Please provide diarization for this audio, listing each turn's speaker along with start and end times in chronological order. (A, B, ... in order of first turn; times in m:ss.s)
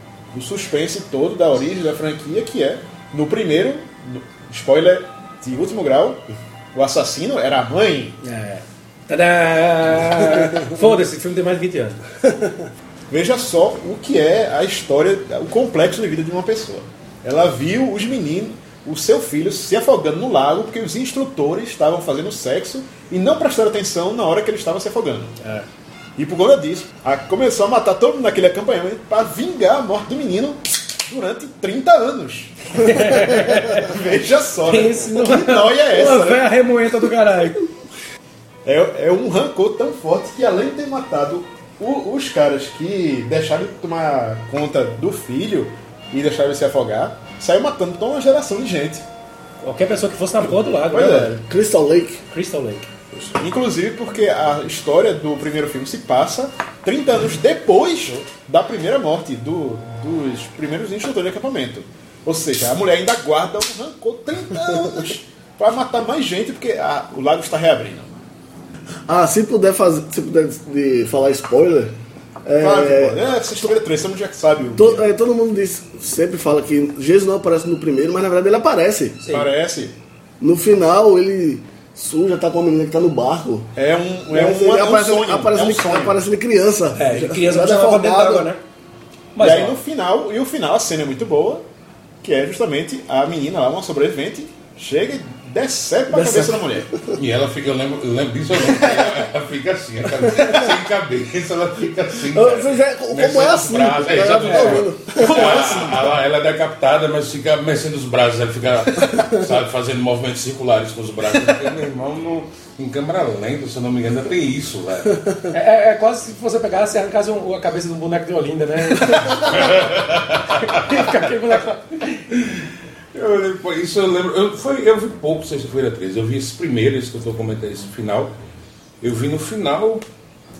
0:00.3-0:08.2 A
0:08.2-0:12.0 B
0:13.1-0:25.5 A
0:26.2-0:36.5 A
0:32.8-0:33.9 B
0:34.6-0:37.6 B
0:38.6-0:49.0 A
0:49.6-0:51.3 B
0:50.9-0:51.3 A
0:51.0-0:52.2 C
0:52.3-0:52.9 B
0:53.2-1:08.2 A
1:09.1-1:11.9 C
1:12.4-1:13.2 C
1:12.6-1:15.0 A
1:14.8-1:19.2 C
1:19.2-1:19.5 B
1:19.3-1:19.9 A
1:20.4-1:23.7 C
1:23.7-1:26.2 A
1:24.3-1:28.5 C
1:26.9-1:28.6 B
1:29.4-1:29.8 B
1:29.4-1:31.6 A
1:32.2-1:36.9 A
1:36.1-1:36.5 B
1:37.1-1:55.4 D
1:42.3-1:46.0 C
1:44.5-1:44.8 B
1:45.2-1:46.0 A
1:55.5-1:59.8 B
1:59.3-2:00.7 D
2:00.5-2:02.2 B
2:02.3-2:08.3 D
2:09.0-2:10.0 D